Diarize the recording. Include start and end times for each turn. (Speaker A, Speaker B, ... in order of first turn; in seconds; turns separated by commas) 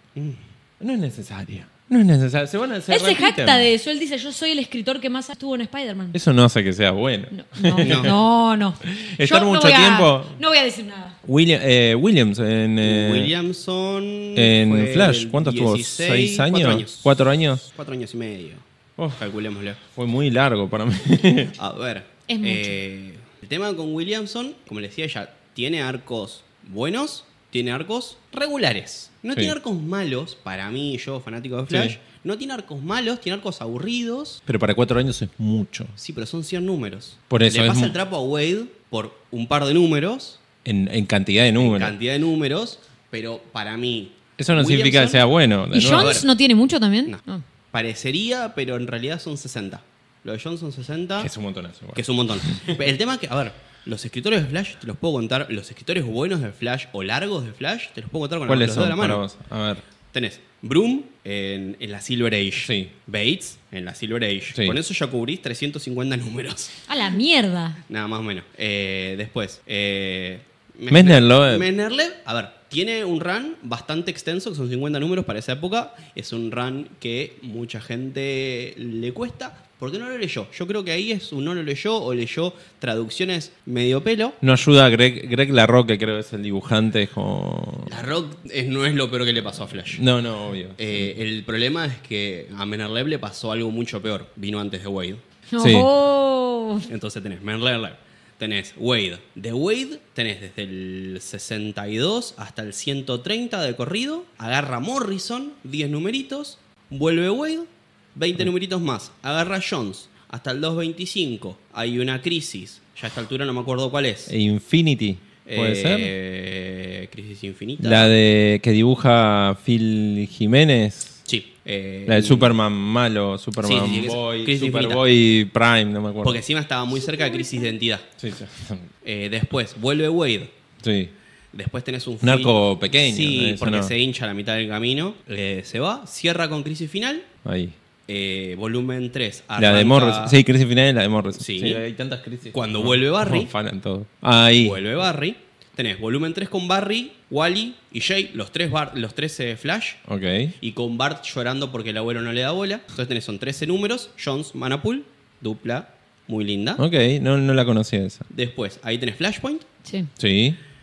Speaker A: 0.8-3.7, Speaker B: 2.9-6.2, Speaker A: 6.1-8.2, Speaker B: 7.3-11.2, Speaker C: 7.8-8.1, Speaker A: 8.8-10.4, Speaker A: 11.2-13.3, Speaker C: 12.8-18.6, Speaker A: 14.3-17.6, Speaker C: 19.1-19.8, Speaker A: 19.8-21.5, Speaker C: 21.6-34.4, Speaker B: 22.3-22.8, Speaker A: 31.7-32.0, Speaker A: 34.5-35.9, Speaker C: 36.0-40.4, Speaker A: 37.3-38.0, Speaker A: 40.6-41.9, Speaker C: 41.6-45.2, Speaker A: 44.4-46.2, Speaker B: 45.7-47.4, Speaker C: 45.8-46.3, Speaker C: 47.7-51.3, Speaker A: 51.2-52.8, Speaker C: 51.9-59.2, Speaker A: 58.5-59.8, Speaker C: 60.1-66.8, Speaker A: 62.6-62.9, Speaker A: 64.5-64.8, Speaker B: 66.9-67.8, Speaker C: 67.9-84.4, Speaker A: 70.9-71.7, Speaker A: 84.4-88.0, Speaker C: 87.9-90.0, Speaker A: 89.9-91.1, Speaker C: 90.8-95.2, Speaker B: 95.5-96.9, Speaker A: 95.6-95.9, Speaker C: 96.9-114.3, Speaker A: 114.3-116.1, Speaker C: 115.5-118.1, Speaker A: 117.8-121.2, Speaker C: 121.3-122.5, Speaker A: 122.1-126.4, Speaker C: 123.6-125.0, Speaker C: 126.2-128.1, Speaker B: 127.1-127.6, Speaker A: 128.2-128.9, Speaker C: 129.0-130.5, Speaker A: 130.8-131.1, Speaker C: 131.5-137.3, Speaker A: 132.2-133.9, Speaker A: 137.4-137.8, Speaker C: 138.1-140.4, Speaker A: 139.6-144.8, Speaker C: 141.4-141.8, Speaker C: 142.5-143.5, Speaker C: 144.6-150.0, Speaker A: 150.1-150.5, Speaker C: 150.6-156.8, Speaker A: 156.8-158.2, Speaker C: 158.3-159.6, Speaker B: 159.8-160.1, Speaker A: 160.2-160.6